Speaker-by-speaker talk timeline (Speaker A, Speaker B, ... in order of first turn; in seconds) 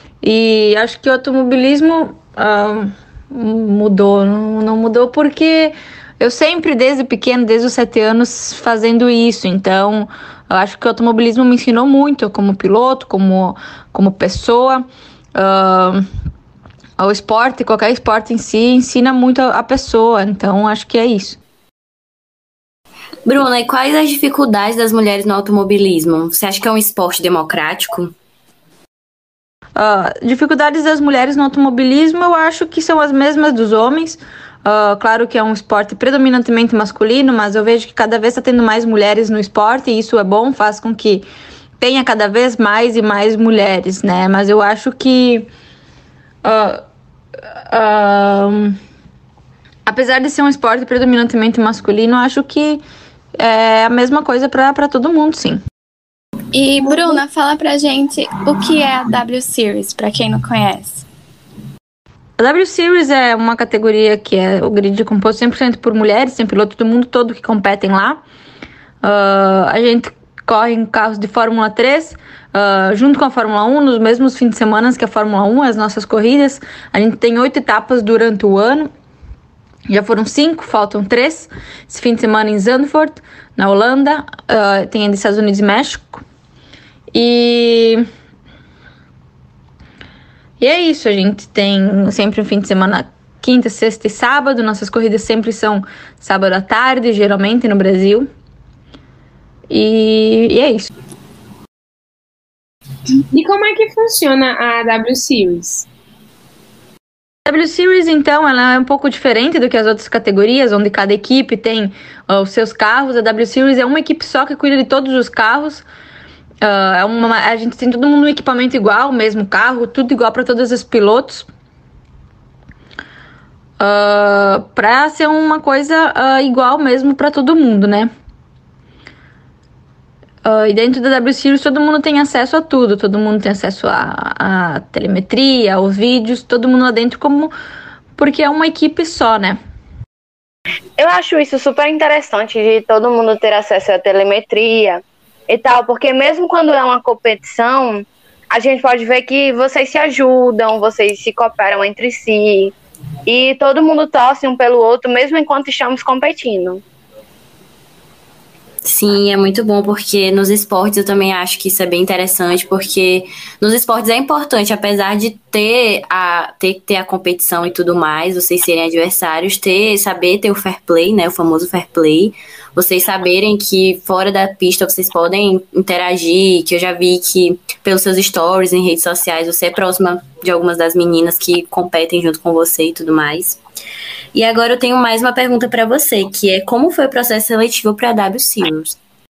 Speaker A: 0.2-16.1, 17.0-21.4, 29.8-41.2, 41.8-45.5, 46.4-46.8, 47.7-48.8, 49.9-52.8, 53.4-55.6, 62.4-68.2, 69.0-78.9, 79.9-86.2, 87.1-88.0, 90.6-98.3, 99.7-100.9, 107.5-115.8, 116.6-121.5, 123.8-128.1, 130.4-137.5, 138.2-139.6
Speaker B: 23.3-28.1, 158.8-183.6, 184.3-189.0
Speaker C: 56.5-61.0
Speaker D: 103.3-105.9
Speaker E: 141.0-152.7, 153.3-156.8